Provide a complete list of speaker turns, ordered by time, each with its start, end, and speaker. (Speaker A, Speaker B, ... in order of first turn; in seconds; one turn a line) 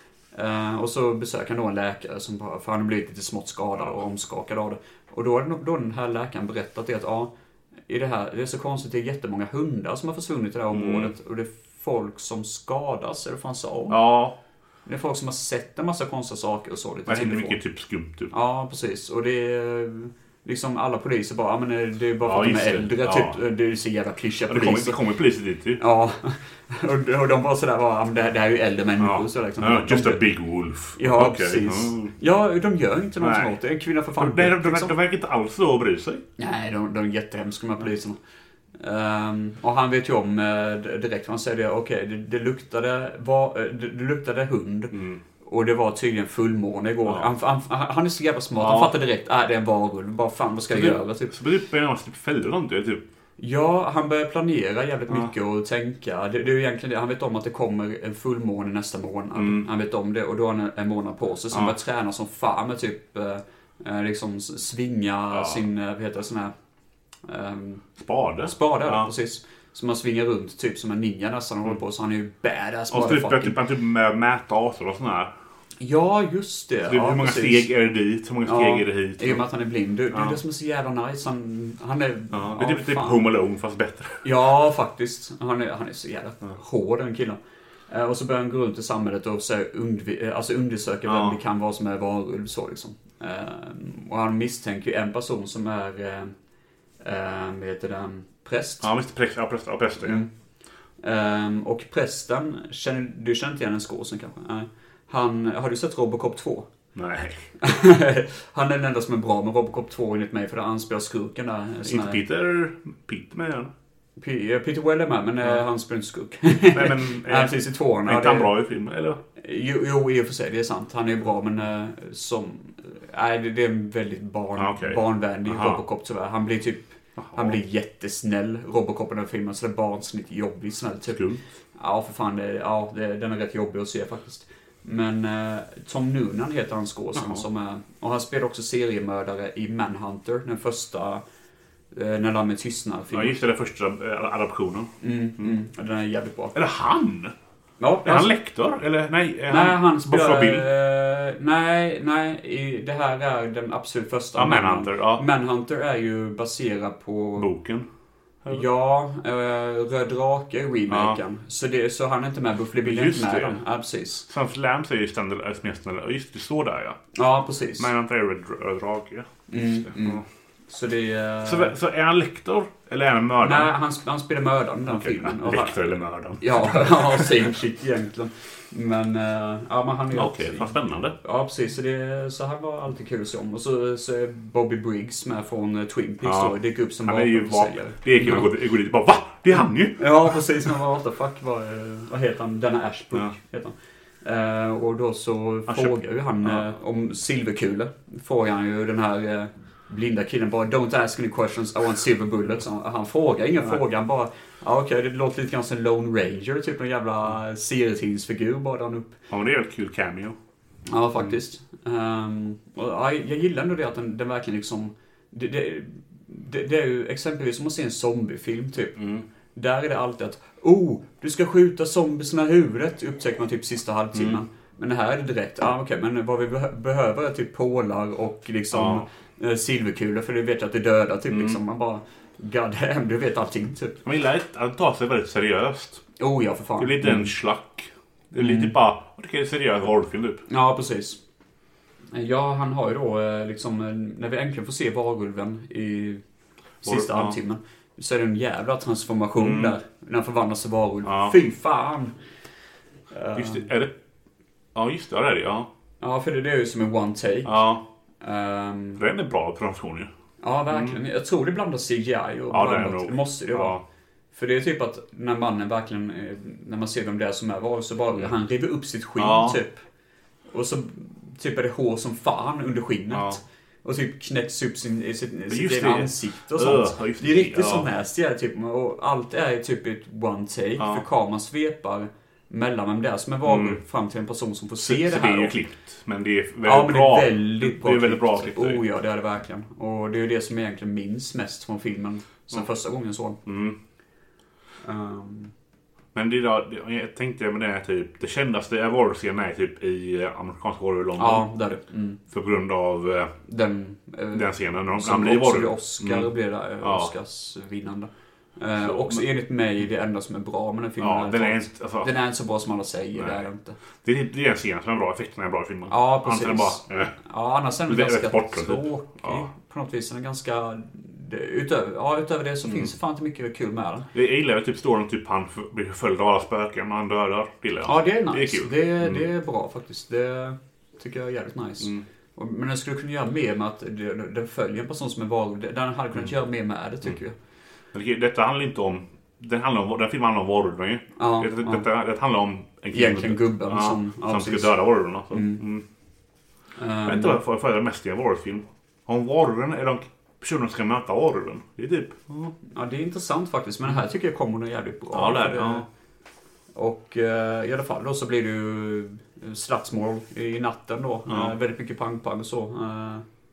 Speaker A: 0.3-7.3
Speaker A: 7.9-14.0
Speaker B: 10.7-11.1
Speaker B: 13.9-14.4
Speaker A: 14.9-17.6
Speaker B: 17.1-18.3
Speaker A: 18.3-25.0
Speaker B: 22.2-23.4
Speaker B: 24.5-25.8
Speaker A: 25.8-30.2
Speaker B: 29.0-32.1
Speaker A: 31.0-35.0
Speaker B: 33.2-33.6
Speaker B: 34.2-36.2
Speaker A: 36.4-38.2
Speaker A: 38.8-51.3
Speaker B: 44.9-45.2
Speaker B: 48.6-48.9
Speaker B: 50.7-53.0
Speaker A: 53.4-66.5
Speaker B: 59.4-59.7
Speaker B: 65.3-65.6
Speaker A: 67.3-67.8
Speaker B: 68.0-69.1
Speaker A: 68.5-73.6
Speaker B: 72.9-75.3
Speaker A: 75.8-77.7
Speaker B: 76.9-79.4
Speaker A: 78.5-83.3
Speaker B: 80.1-80.4
Speaker B: 82.3-84.2
Speaker A: 84.2-96.3
Speaker B: 91.1-91.4
Speaker A: 97.0-98.9
Speaker B: 98.8-100.2
Speaker A: 100.0-100.3
Speaker A: 101.0-106.7
Speaker B: 107.0-107.5
Speaker A: 107.6-112.2
Speaker B: 111.8-113.7
Speaker A: 114.2-118.5
Speaker B: 116.7-119.2
Speaker A: 119.4-131.2
Speaker B: 124.6-125.8
Speaker B: 127.2-127.6
Speaker B: 131.1-131.4
Speaker A: 131.8-141.2
Speaker B: 137.2-137.4
Speaker A: 141.9-143.4
Speaker B: 143.1-145.5
Speaker A: 145.0-146.6
Speaker B: 146.6-147.3
Speaker A: 147.8-148.3
Speaker B: 148.1-150.7
Speaker A: 149.5-157.5
Speaker B: 154.4-155.2
Speaker B: 157.4-157.9
Speaker A: 158.5-164.3
Speaker B: 160.9-161.2
Speaker B: 162.8-163.6
Speaker B: 164.3-167.0
Speaker A: 167.2-167.9
Speaker B: 167.8-170.2
Speaker A: 169.5-171.7
Speaker B: 171.4-173.7
Speaker A: 173.4-188.5
Speaker B: 174.9-177.5
Speaker B: 180.1-181.2
Speaker B: 186.2-190.4
Speaker A: 190.0-209.2
Speaker B: 195.7-196.7
Speaker B: 209.3-210.4
Speaker A: 210.9-219.0
Speaker B: 219.0-219.2
Speaker A: 219.6-234.0
Speaker B: 224.1-224.4
Speaker B: 228.7-229.1
Speaker B: 231.3-231.6
Speaker B: 234.1-236.0
Speaker A: 236.2-237.3
Speaker B: 236.8-240.4
Speaker A: 238.4-238.7
Speaker A: 240.5-241.2
Speaker A: 242.1-246.2
Speaker B: 246.8-247.4
Speaker A: 246.8-252.1
Speaker B: 249.4-249.8
Speaker B: 251.1-251.3
Speaker A: 253.1-253.7
Speaker B: 253.3-253.9
Speaker B: 254.8-255.7
Speaker A: 256.0-257.6
Speaker B: 257.4-257.8
Speaker A: 258.2-259.0
Speaker B: 259.0-260.1
Speaker A: 260.4-263.8
Speaker B: 260.7-261.0
Speaker B: 262.5-263.8
Speaker A: 264.3-269.8
Speaker B: 269.2-269.6
Speaker A: 270.5-285.6
Speaker B: 273.1-273.4
Speaker B: 275.5-277.9
Speaker B: 280.8-281.0
Speaker B: 283.4-283.8
Speaker B: 284.8-288.8
Speaker A: 286.6-293.4
Speaker B: 293.4-293.8
Speaker A: 294.8-295.5
Speaker B: 296.1-301.5
Speaker A: 301.2-302.2
Speaker B: 302.3-303.3
Speaker A: 303.5-313.8
Speaker B: 304.3-307.1
Speaker B: 308.8-309.3
Speaker B: 311.0-312.1
Speaker B: 313.2-313.4
Speaker B: 314.0-317.1
Speaker A: 315.9-324.1
Speaker B: 317.9-319.5
Speaker B: 322.6-322.9
Speaker B: 324.1-329.3
Speaker A: 327.9-337.4
Speaker B: 337.9-345.9
Speaker A: 341.2-341.8
Speaker A: 342.9-344.8
Speaker A: 345.3-345.6
Speaker A: 346.8-347.4
Speaker B: 347.1-352.5
Speaker A: 352.6-355.9
Speaker B: 355.1-355.9
Speaker A: 356.8-363.2